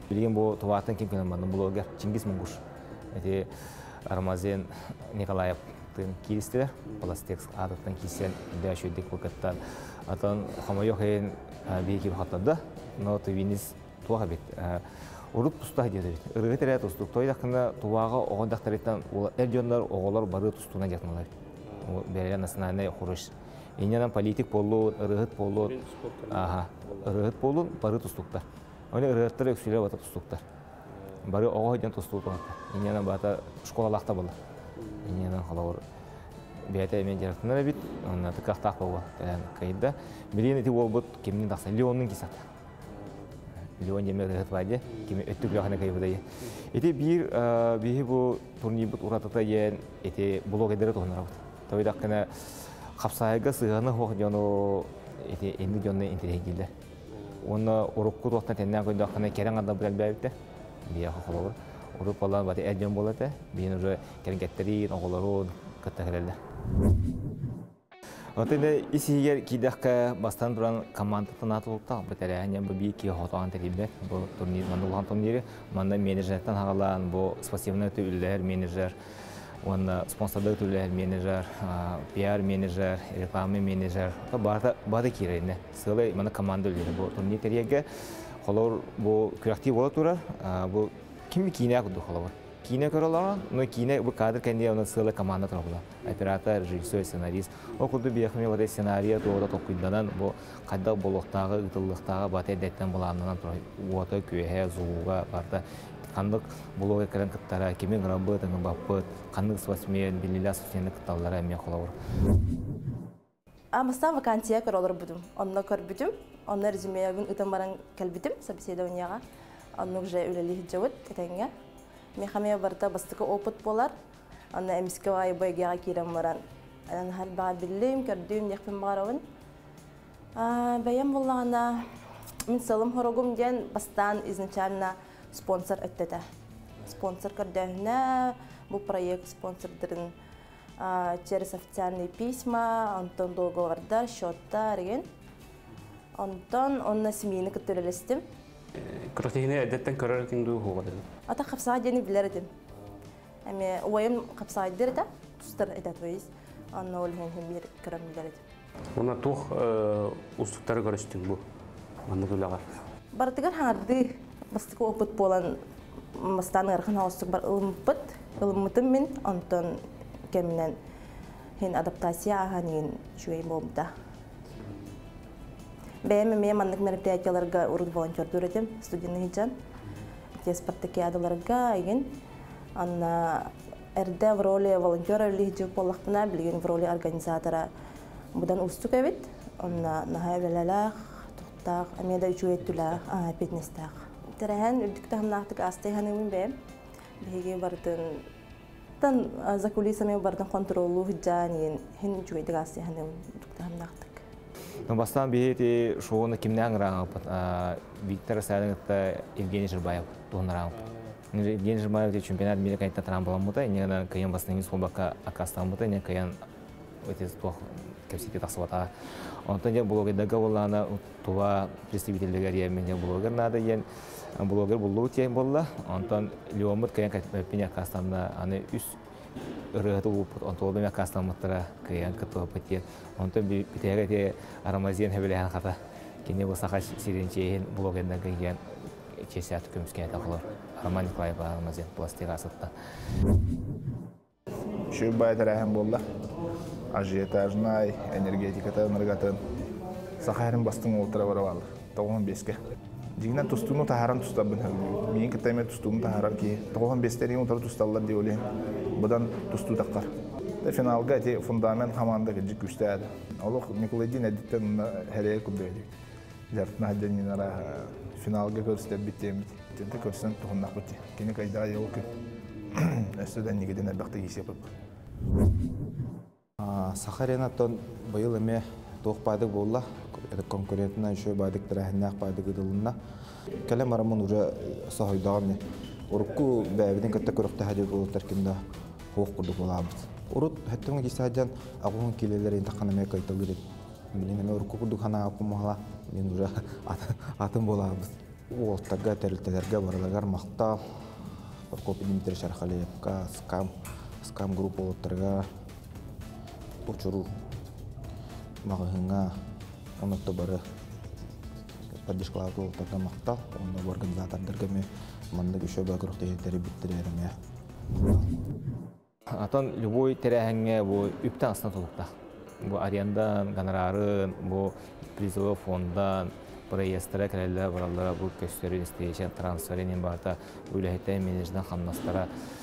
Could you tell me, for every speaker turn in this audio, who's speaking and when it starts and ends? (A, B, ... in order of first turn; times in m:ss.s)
0:00.1-0:02.6 A
0:03.1-0:03.5 A
0:04.0-0:21.3 A
0:21.8-0:25.8 A
0:25.6-0:27.1 B
0:26.3-0:30.4 A
0:31.2-0:34.4 A
0:34.8-0:35.3 B
0:35.0-0:35.8 A
0:36.7-0:42.4 A
0:43.8-0:56.7 A
0:57.4-1:00.3 A
1:00.8-1:06.4 A
1:08.4-1:18.9 A
1:19.6-1:51.9 A
1:53.7-1:59.2 C
1:59.8-2:01.5 C
2:02.2-2:03.9 C
2:04.5-2:09.2 C
2:10.4-2:11.8 C
2:12.5-2:16.2 C
2:16.8-2:20.1 C
2:20.8-2:25.1 C
2:26.2-2:28.2 C
2:28.8-2:31.1 B
2:31.3-2:32.5 C
2:33.4-2:38.4 C
2:38.9-2:41.4 B
2:42.0-2:42.6 B
2:43.1-2:45.6 C
2:46.1-2:49.8 C
2:50.3-2:50.8 C
2:51.6-2:53.9 C
2:56.0-2:59.5 C
3:00.4-3:02.1 C
3:02.8-3:07.7 C
3:08.3-3:16.6 C
3:17.2-3:18.2 C
3:19.0-3:24.2 C
3:24.8-3:30.8 A
3:31.3-3:36.4 A
3:37.0-3:38.9 A
3:39.4-3:49.0 A
3:49.7-3:58.6 A
3:59.1-4:02.7 A
4:04.9-4:06.0 D
4:06.9-4:09.4 D
4:10.2-4:12.6 D
4:13.2-4:18.4 D
4:19.0-4:20.1 D
4:20.6-4:25.9 D
4:26.5-4:32.0 D
4:32.7-4:34.7 D
4:36.6-4:42.9 E
4:43.6-4:48.6 E
4:49.1-4:53.6 E
4:54.1-5:00.8 E
5:01.7-5:03.7 E
5:04.2-5:05.4 E
5:06.8-5:07.3 E
5:08.6-5:09.3 E
5:10.0-5:10.6 E
5:11.9-5:17.3 E
5:19.3-5:22.1 A
5:22.6-5:32.3 A